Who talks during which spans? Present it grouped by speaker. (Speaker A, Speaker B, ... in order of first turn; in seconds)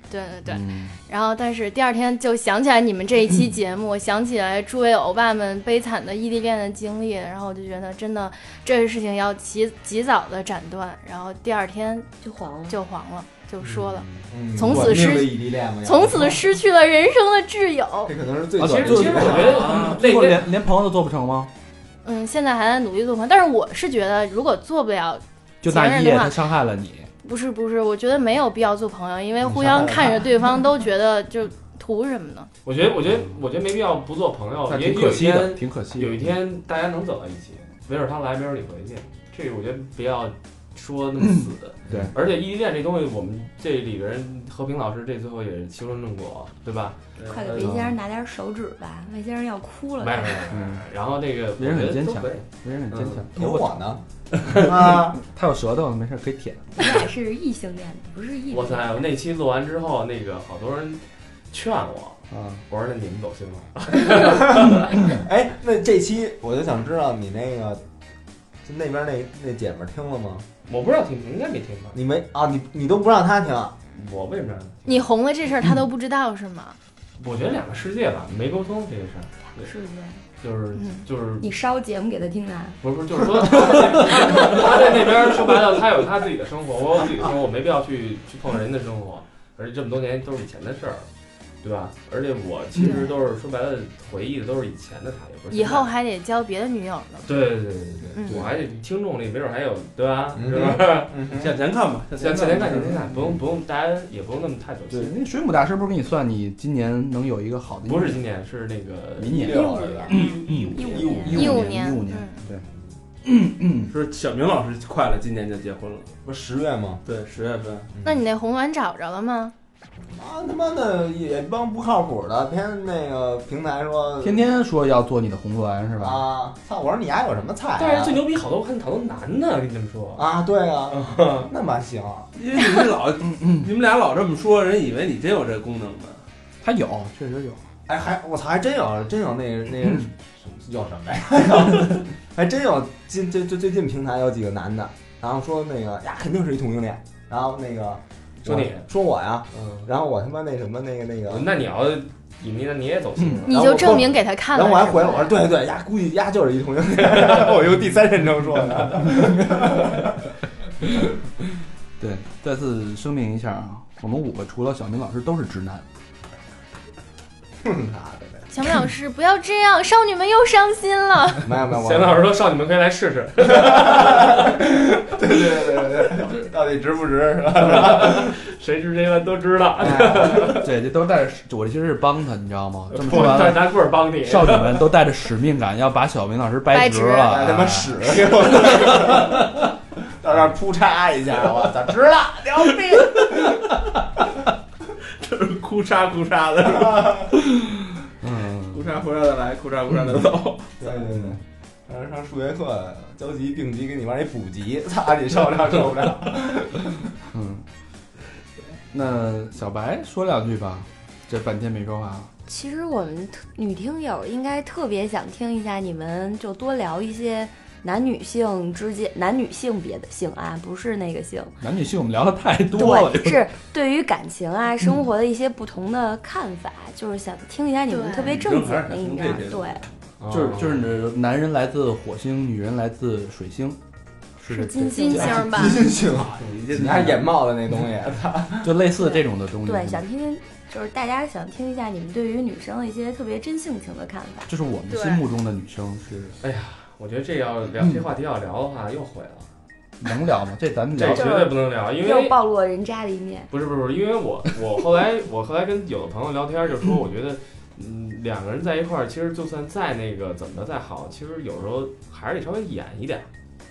Speaker A: 0.1-12.1, 12.7-18.1, 22.1-26.4, 27.2-32.5, 74.9-76.8, 80.8-81.0, 95.5-97.3, 98.2-98.4, 111.3-112.4, 118.0-119.5, 153.5-155.3, 168.5-171.5, 186.7-187.5, 227.9-228.4, 234.8-235.9, 244.9-245.2
Speaker B: 0.5-1.0, 18.6-21.5, 25.6-27.1, 34.7-36.4, 41.2-42.1, 47.6-48.0, 50.5-50.9, 51.6-53.8, 54.5-56.9, 62.3-62.6, 104.9-108.2, 109.2-112.7, 113.2-113.9, 124.2-126.2, 133.2-133.7, 136.6-137.6, 162.0-165.8, 180.6-189.3, 197.5-198.9, 207.3-207.7, 208.9-212.3, 221.6-223.5, 230.3-233.8, 234.4-235.9, 238.6-240.0, 244.5-246.4, 247.8-248.1, 250.0-251.5
Speaker C: 12.2-12.8, 47.3-50.5, 56.8-58.9, 79.6-80.2, 81.4-82.8, 109.4-111.7, 212.5-221.5, 222.7-229.8, 234.5-235.7, 239.1-244.5, 251.0-253.5
Speaker D: 13.7-14.3, 18.6-20.5, 32.6-47.8, 50.0-53.3, 58.5-65.1, 70.7-72.0, 73.9-75.0, 77.2-79.7, 80.4-81.5, 82.8-91.1, 91.6-95.9, 97.3-101.1, 102.2-105.2, 107.8-111.3, 127.8-130.3, 130.9-131.5, 148.4-148.9, 149.5-149.9, 151.3-153.9, 171.7-174.5, 177.6-180.7, 182.9-184.9, 230.2-230.9, 246.4-249.5, 251.0-252.4, 253.5-263.3
Speaker E: 14.3-16.5, 18.1-19.7, 29.5-29.9, 41.9-42.1, 53.4-55.2, 64.2-67.8, 68.7-70.5, 71.9-73.8, 100.3-101.6, 109.3-111.7, 116.2-117.0, 117.9-118.2, 120.0-124.4, 126.0-128.2, 130.2-132.3, 137.9-151.5, 153.5-160.3, 167.6-168.5, 171.4-172.2, 173.5-178.4, 179.8-180.7, 187.3-189.6, 190.2-193.6, 196.6-197.3, 200.8-207.0, 235.5-238.8
Speaker F: 101.2-103.1, 113.9-116.1, 117.0-117.9, 132.4-136.2, 193.1-193.7, 195.2-197.2, 198.7-200.9, 228.2-229.9, 236.3-237.3